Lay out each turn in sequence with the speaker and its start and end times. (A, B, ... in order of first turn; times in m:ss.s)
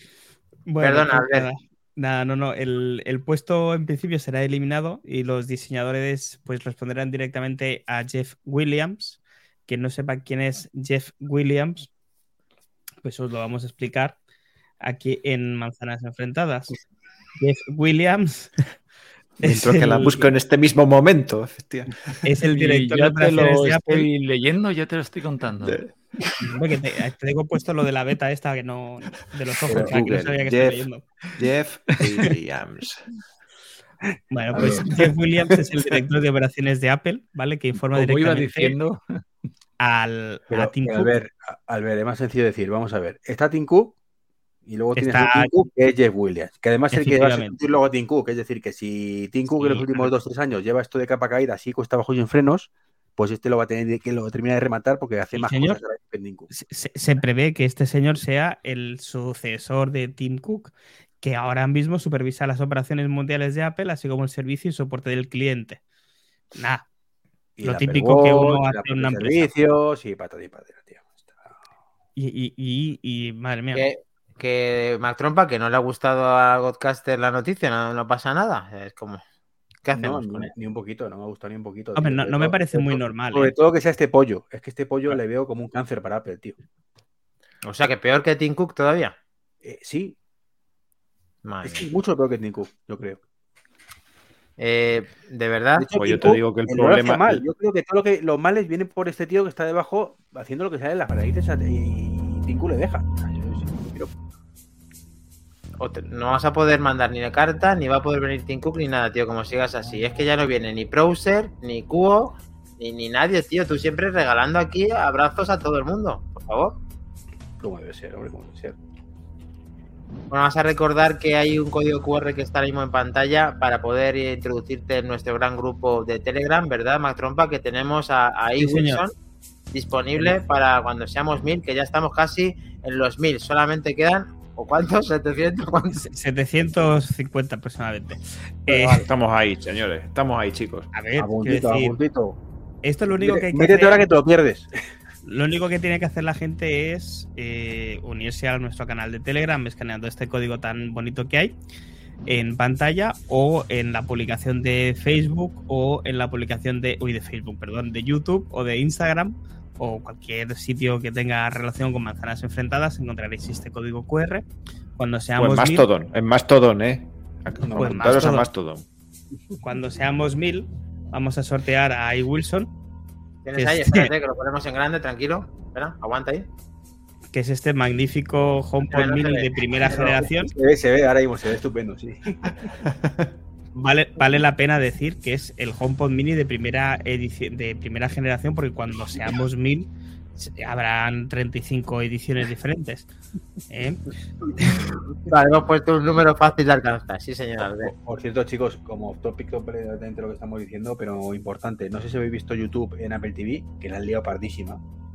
0:00.7-0:11.9 A
0:00.8-0:01.5 B
0:13.0-0:14.2 A
0:14.8-0:16.7 A
0:17.4-0:18.6 A
0:19.4-0:20.3 A
0:19.4-0:22.2 C
0:22.2-0:24.1 A
0:22.5-0:25.8 D
0:25.6-0:26.4 C
0:26.4-0:31.0 A
0:29.7-0:30.3 E
0:29.7-0:33.1 C
0:34.3-0:38.7 A
0:34.5-0:34.9 E
0:37.9-0:39.2 D
0:39.8-0:41.2 A
0:40.5-0:44.0 E
0:44.6-0:56.5 E
0:45.0-0:45.5 A
0:46.9-0:47.6 A
0:49.6-0:50.1 A
0:55.3-0:55.8 A
0:56.5-1:05.8 A
1:06.6-1:06.8 A
1:07.6-1:11.6 E
1:07.6-1:09.5 A
1:12.2-1:13.9 A
1:13.7-1:19.2 B
1:19.8-1:20.5 B
1:19.9-1:26.6 E
1:22.0-1:23.5 A
1:27.6-1:29.2 B
1:29.6-1:30.2 E
1:31.4-1:31.9 B
1:31.6-1:33.2 E
1:34.6-1:35.9 B
1:35.8-1:44.1 E
1:35.9-1:37.4 C
1:45.8-1:56.8 B
1:57.6-1:58.8 E
2:00.3-2:09.1 B
2:08.6-2:09.0 A
2:09.7-2:16.0 B
2:16.0-2:19.1 A
2:19.0-2:20.9 C
2:20.9-2:22.0 A
2:21.2-2:22.4 E
2:22.8-2:24.0 A
2:23.2-2:24.7 E
2:25.2-2:31.5 A
2:32.3-2:44.4 A
2:45.0-2:45.9 A
2:45.4-2:48.8 C
2:47.6-2:48.1 E
2:47.7-2:48.5 A
2:49.6-2:52.7 A
2:53.4-2:56.5 B
2:53.6-2:54.1 A
2:57.3-3:00.5 A
2:58.9-3:00.1 B
2:59.9-3:02.4 E
3:02.8-3:03.3 C
3:03.7-3:13.1 A
3:13.7-3:14.0 A
3:15.3-3:17.9 B
3:17.8-3:24.8 E